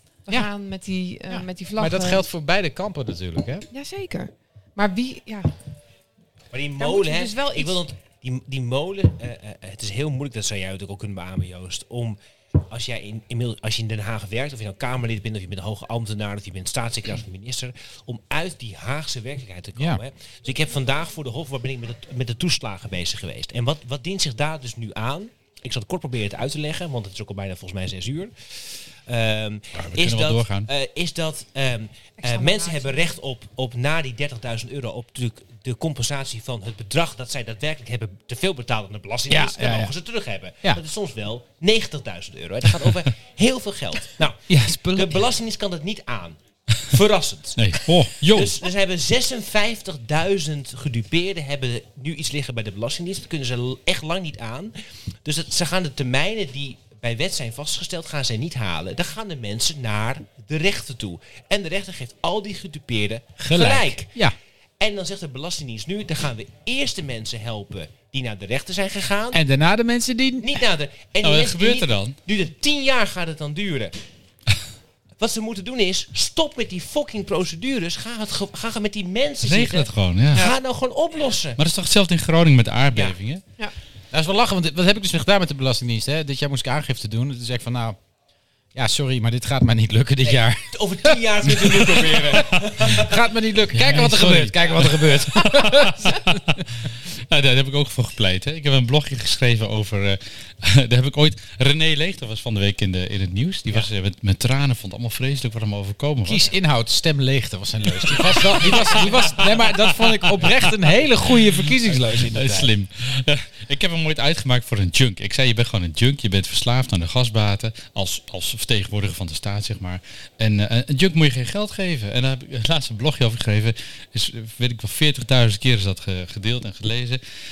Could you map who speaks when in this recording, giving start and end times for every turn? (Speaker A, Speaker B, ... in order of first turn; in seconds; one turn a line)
Speaker A: 0.2-2.2
Speaker B: 1.3-3.7
Speaker A: 3.7-5.5
Speaker C: 6.5-64.1
Speaker A: 6.8-7.8
Speaker D: 29.7-30.7
Speaker A: 32.2-33.2
Speaker B: 39.3-39.9
Speaker B: 44.5-45.3
Speaker D: 47.6-48.6
Speaker B: 63.4-64.3
Speaker C: 64.8-69.4
Speaker B: 69.3-70.6
Speaker C: 70.4-74.0
Speaker D: 71.2-72.2
Speaker C: 75.2-81.6
Speaker D: 79.4-80.5
Speaker D: 81.6-83.4
Speaker B: 84.1-88.0
Speaker B: 88.7-96.6
Speaker C: 90.2-93.2
Speaker D: 93.7-106.5
Speaker B: 106.2-112.7
Speaker D: 108.0-110.7
Speaker D: 112.0-127.2